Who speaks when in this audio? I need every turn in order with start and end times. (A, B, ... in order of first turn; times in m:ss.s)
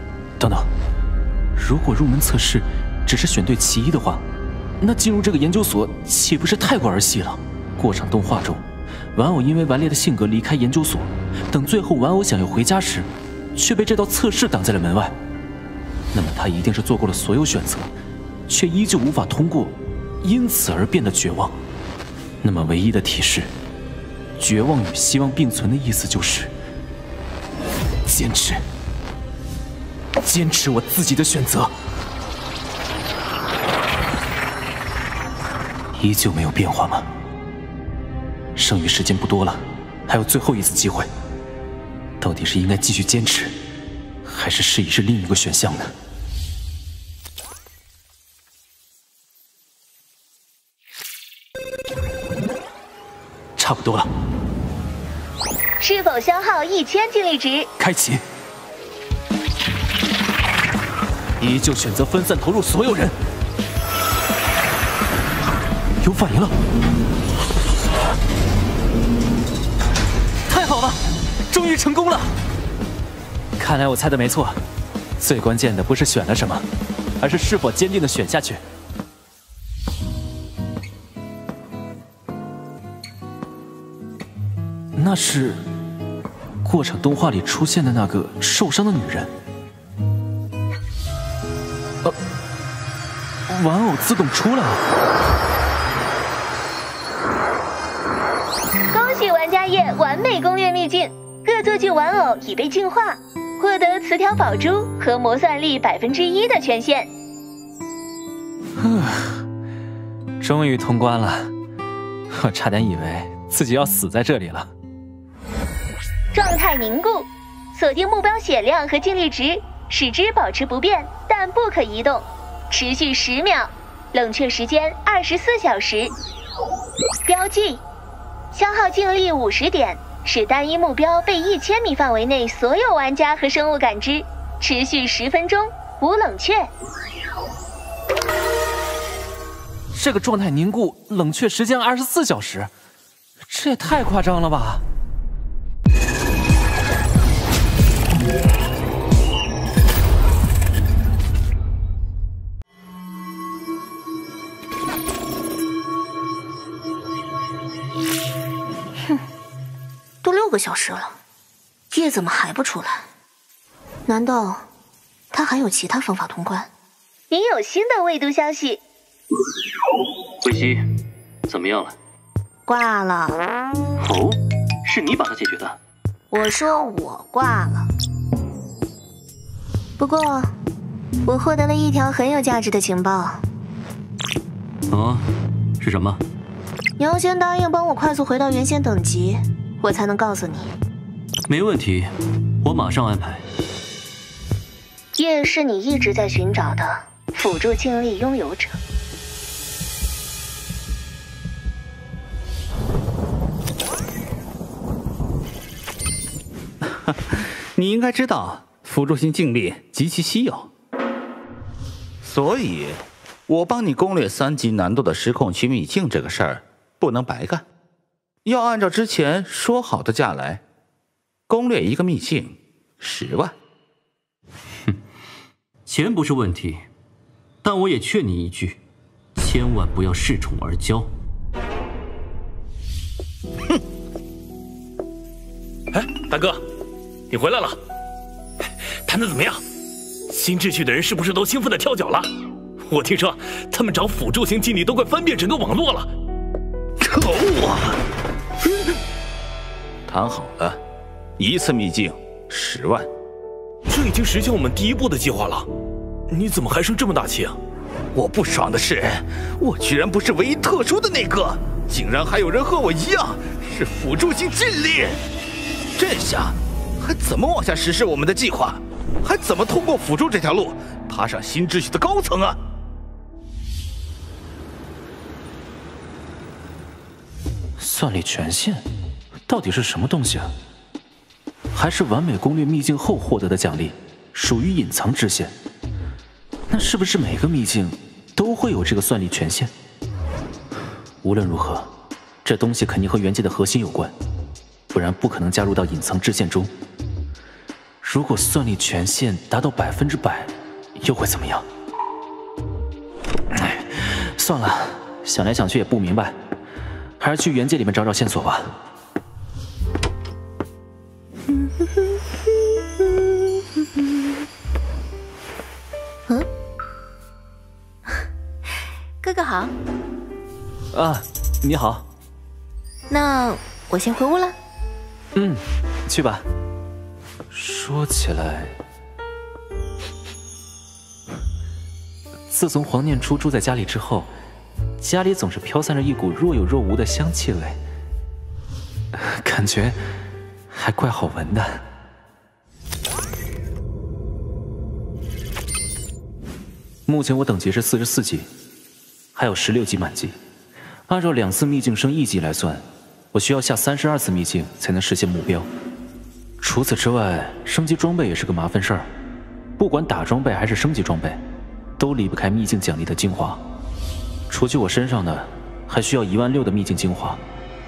0:00.4-0:00.7 A
0:01.6-0:04.2 A
0:04.8-0:08.6 A
0:09.2-0:15.2 A
0:16.1-0:17.9 A
0:18.5-0:21.6 A
0:22.4-0:23.5 A
0:24.4-0:26.5 A
0:28.1-0:28.6 A
0:30.2-0:31.7 A
0:36.0-0:37.1 A
0:38.6-0:41.1 A
0:42.2-0:43.5 A
0:44.2-0:45.9 A
0:53.6-0:54.1 A
0:55.8-0:57.7 B
0:57.8-0:58.2 A
1:01.4-1:03.2 A
1:06.0-1:06.6 A
1:10.5-1:11.0 A
1:11.5-1:12.3 A
1:13.6-1:14.6 A
1:15.2-1:16.6 A
1:17.2-1:18.6 A
1:25.0-1:25.6 A
1:26.6-1:29.3 A
1:33.5-1:34.8 A
1:38.9-1:47.1 B
1:48.8-1:49.4 A
1:50.4-1:51.5 A
1:52.3-1:54.7 A
1:56.3-2:06.1 B
2:07.3-2:07.8 B
2:08.5-2:16.7 B
2:19.9-2:22.7 A
2:23.5-2:24.8 A
2:40.2-2:41.2 C
2:41.9-2:43.1 C
2:44.1-2:44.6 C
2:45.3-2:46.7 C
2:47.3-2:48.8 B
2:50.4-2:50.9 D
2:51.5-2:52.0 D
2:52.7-2:53.4 C
2:54.0-2:55.8 D
2:56.3-2:57.9 C
3:00.0-3:00.5 C
3:01.3-3:03.4 C
3:04.9-3:05.3 D
3:05.8-3:06.2 D
3:07.0-3:10.7 C
3:11.5-3:12.1 D
3:12.6-3:13.4 D
3:15.2-3:18.8 C
3:26.8-3:30.7 E
3:32.2-3:37.7 E
3:38.4-3:40.6 E
3:41.5-3:43.6 E
3:45.9-3:46.8 D
3:47.6-3:48.8 D
3:49.4-3:51.1 D
4:03.7-4:04.0 F
4:07.0-4:07.8 E
4:10.1-4:10.8 E
4:11.4-4:13.1 E
4:13.9-4:15.4 F
4:16.3-4:17.6 F
4:18.1-4:25.2 E
4:26.0-4:32.6 E
4:37.8-4:38.9 A
4:39.5-4:40.5 A
4:41.7-4:45.5 A
4:46.7-4:49.7 A
4:51.2-4:51.9 A
4:52.4-4:54.1 A
4:54.9-4:56.7 A
4:58.0-5:01.7 A
5:03.5-5:06.4 A
5:07.2-5:08.7 A
5:19.2-5:19.7 C
5:20.9-5:22.0 A
5:23.1-5:24.6 C
5:25.4-5:26.4 A
5:27.5-5:28.8 A
5:32.5-5:34.3 A
5:35.0-5:37.8 A
5:39.1-5:40.0 A
5:40.7-5:41.8 A
5:47.1-5:48.5 A
5:49.4-5:50.4 A
5:51.1-5:55.7 A
5:56.6-5:59.1 A
5:59.8-6:01.4 A
6:02.0-6:03.6 A
6:04.5-6:07.4 A